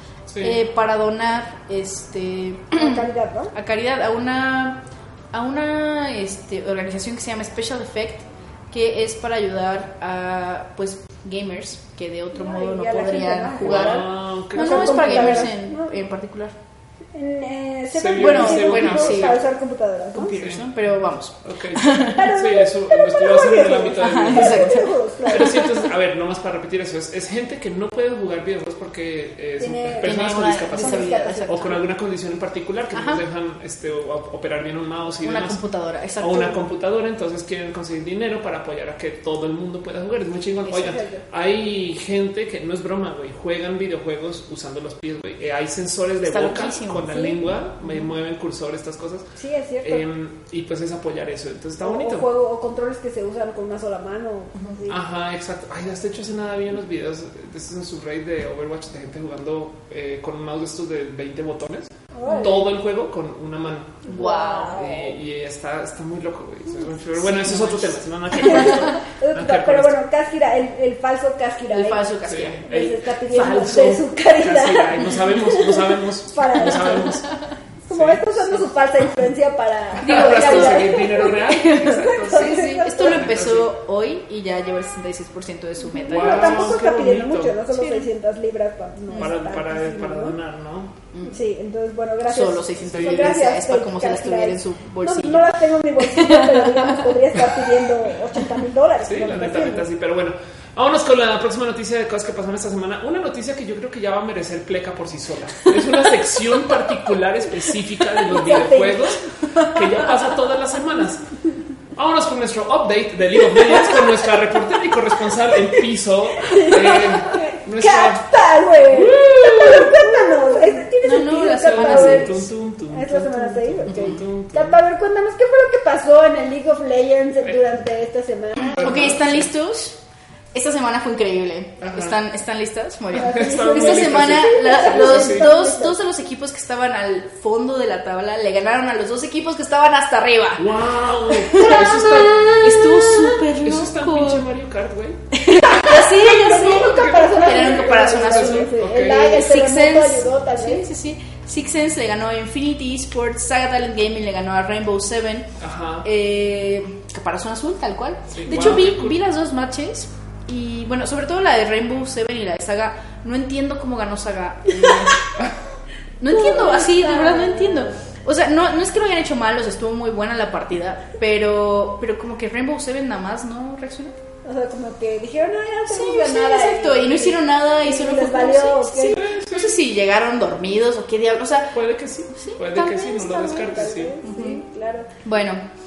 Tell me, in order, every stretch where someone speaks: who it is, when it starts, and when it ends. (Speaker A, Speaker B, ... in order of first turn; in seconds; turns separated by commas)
Speaker A: 0.3-0.6, Speaker B: 0.3-3.0, Speaker C: 2.7-3.5, Speaker B: 3.5-16.5, Speaker C: 12.3-15.9, Speaker A: 13.6-15.5, Speaker C: 17.1-20.4, Speaker A: 17.9-19.4, Speaker B: 18.2-19.4, Speaker B: 20.1-22.2, Speaker A: 20.3-35.6, Speaker C: 22.1-25.7, Speaker B: 24.0-25.8, Speaker C: 29.6-31.8, Speaker B: 30.0-31.8, Speaker B: 32.9-33.2, Speaker B: 35.2-36.6, Speaker A: 36.2-49.3, Speaker C: 40.6-41.2, Speaker B: 46.2-48.0, Speaker C: 49.4-50.0, Speaker A: 49.8-52.3, Speaker C: 51.8-55.0, Speaker A: 54.9-64.1, Speaker C: 62.1-62.7, Speaker C: 64.0-65.1, Speaker B: 64.1-64.9, Speaker A: 64.7-69.9, Speaker B: 67.2-68.9, Speaker C: 68.3-72.1, Speaker B: 71.7-72.6, Speaker A: 72.2-77.3, Speaker C: 72.6-77.2, Speaker C: 77.8-83.3, Speaker A: 77.9-78.7, Speaker B: 80.0-86.8, Speaker A: 80.0-83.7, Speaker C: 85.8-90.4, Speaker A: 86.1-87.6, Speaker B: 87.7-88.1, Speaker A: 89.2-90.9, Speaker B: 91.1-91.4, Speaker C: 91.3-99.8, Speaker B: 92.3-97.2, Speaker A: 92.9-93.3, Speaker A: 99.0-111.2, Speaker C: 108.2-109.1, Speaker A: 111.9-118.2, Speaker C: 113.5-114.1, Speaker C: 116.4-129.1, Speaker A: 118.8-120.2, Speaker B: 121.0-122.3, Speaker A: 121.7-124.8, Speaker B: 123.9-124.2, Speaker A: 128.6-129.5, Speaker B: 128.8-130.0, Speaker B: 130.5-140.7, Speaker A: 131.8-132.2, Speaker A: 133.1-135.5, Speaker C: 133.2-136.0, Speaker A: 140.6-143.0, Speaker B: 141.3-144.4, Speaker C: 141.5-142.9, Speaker A: 143.6-145.3, Speaker B: 145.3-155.5, Speaker C: 145.7-150.8, Speaker A: 146.4-149.3, Speaker A: 155.6-156.1, Speaker B: 156.0-165.3, Speaker A: 158.3-159.2, Speaker B: 166.2-174.2, Speaker C: 166.3-167.9, Speaker C: 174.4-179.2, Speaker B: 175.9-181.8, Speaker A: 179.1-179.8, Speaker A: 181.7-184.2, Speaker B: 182.3-182.6, Speaker C: 182.7-185.1, Speaker B: 184.2-184.6, Speaker B: 185.2-185.6